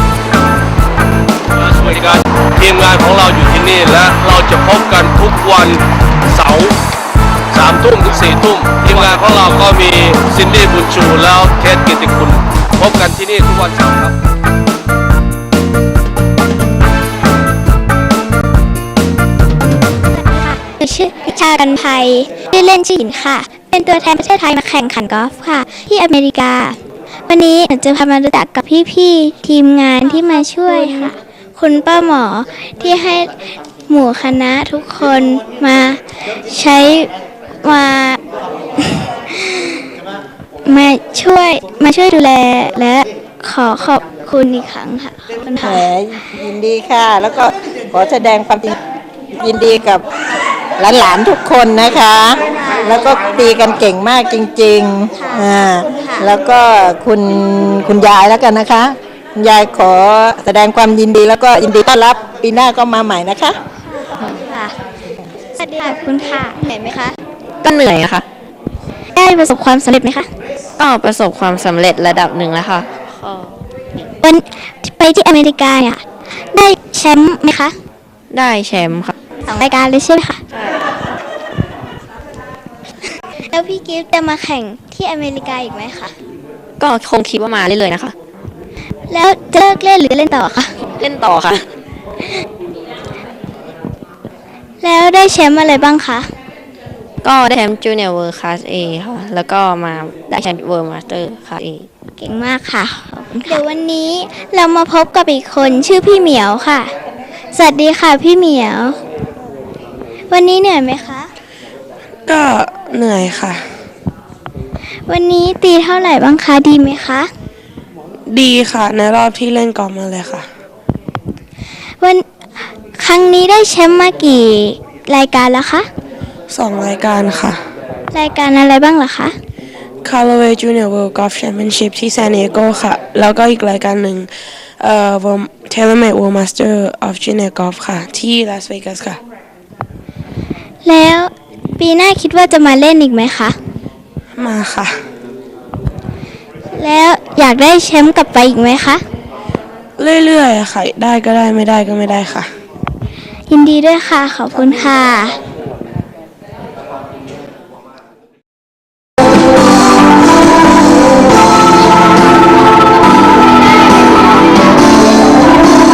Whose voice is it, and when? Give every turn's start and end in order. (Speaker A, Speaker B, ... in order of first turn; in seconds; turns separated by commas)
Speaker A: 1.6-5.8, Speaker A: 6.3-6.7, Speaker A: 7.5-14.1, Speaker B: 20.2-26.8, Speaker B: 27.3-37.1, Speaker B: 37.6-38.2, Speaker B: 38.8-39.8, Speaker B: 40.6-45.9, Speaker C: 45.6-48.8, Speaker C: 49.4-50.0, Speaker C: 50.8-63.6, Speaker B: 52.6-52.9, Speaker B: 65.6-67.2, Speaker D: 67.6-68.2, Speaker B: 69.2-70.3, Speaker D: 70.8-73.5, Speaker B: 74.2-76.0, Speaker B: 76.5-77.7, Speaker D: 78.3-79.1, Speaker B: 79.5-80.4, Speaker B: 83.5-86.1, Speaker D: 86.8-88.1, Speaker B: 89.1-90.7, Speaker D: 91.0-91.6, Speaker B: 94.8-96.3, Speaker D: 97.2-101.9, Speaker B: 102.2-106.9, Speaker B: 107.5-109.0, Speaker B: 110.3-111.3, Speaker E: 112.3-113.6, Speaker B: 115.1-117.3, Speaker E: 118.3-120.5, Speaker B: 123.0-125.8, Speaker E: 126.5-127.6, Speaker B: 128.1-129.3, Speaker E: 130.0-139.2, Speaker B: 140.8-143.5, Speaker E: 144.3-144.9, Speaker B: 146.7-149.0, Speaker E: 150.0-152.5, Speaker B: 153.5-155.4